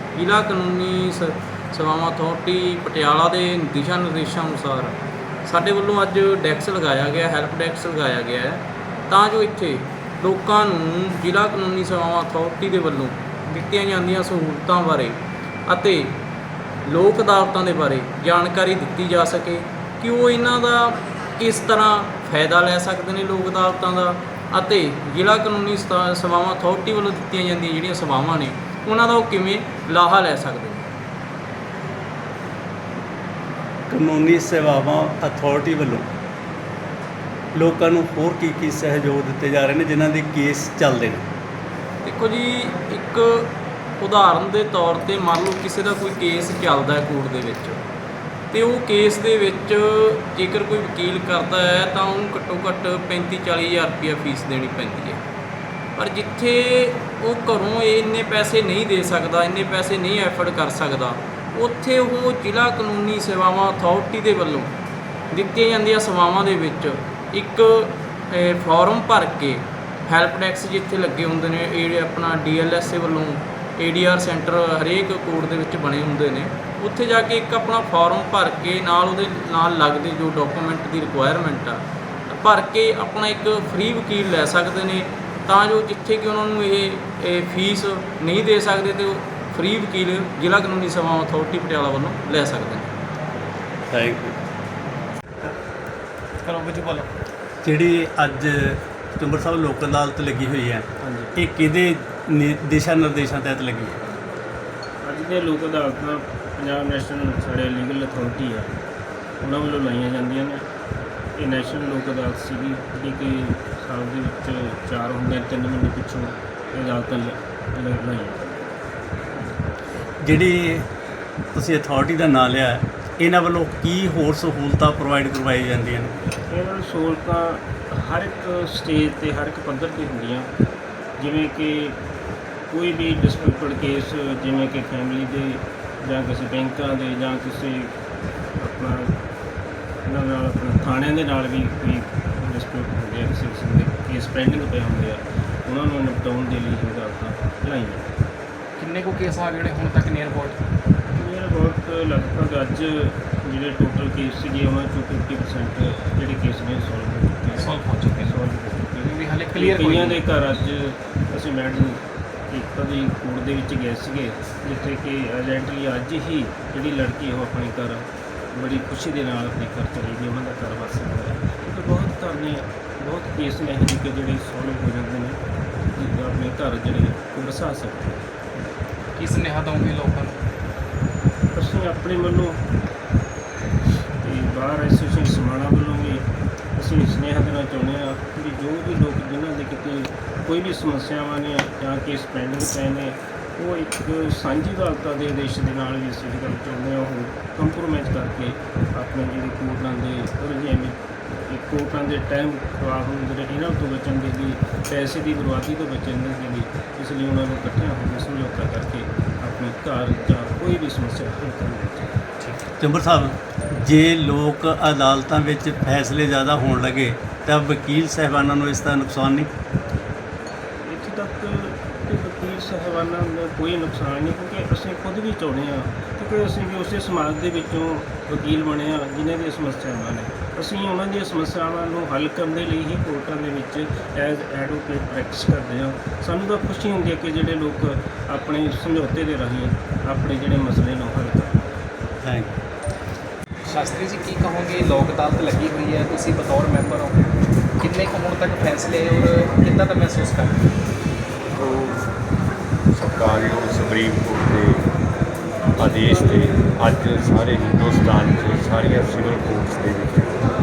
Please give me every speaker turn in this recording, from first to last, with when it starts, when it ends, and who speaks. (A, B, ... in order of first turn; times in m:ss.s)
0:00.2-0:16.2 A
0:16.9-0:30.9 A
0:33.9-0:36.1 B
0:37.6-0:41.2 B
0:42.0-0:47.8 A
0:48.5-0:55.2 A
0:56.0-1:04.7 A
1:05.3-1:32.9 A
1:33.9-1:34.4 B
1:36.4-1:37.1 C
1:37.6-1:44.0 B
1:41.0-1:41.3 D
1:45.0-1:48.7 D
1:49.4-1:50.6 D
1:51.4-1:58.7 D
2:00.2-2:00.9 B
2:01.5-2:06.1 B
2:06.5-2:10.5 D
2:11.2-2:12.0 D
2:12.7-2:17.9 D
2:18.6-2:19.1 D
2:20.1-2:28.1 D
2:28.8-2:30.6 C
2:31.2-2:55.4 D
2:37.6-2:38.4 C
2:39.0-2:40.2 C
2:55.9-2:58.2 D
2:59.2-3:00.4 C
3:01.6-3:02.6 D
3:04.2-3:06.2 D
3:06.8-3:32.2 D
3:32.8-3:39.5 B
3:40.9-4:01.6 D
4:02.2-4:02.5 B
4:03.7-4:07.2 C
4:07.8-4:10.6 C
4:11.6-4:12.0 E
4:13.0-4:14.8 E
4:15.8-4:20.4 E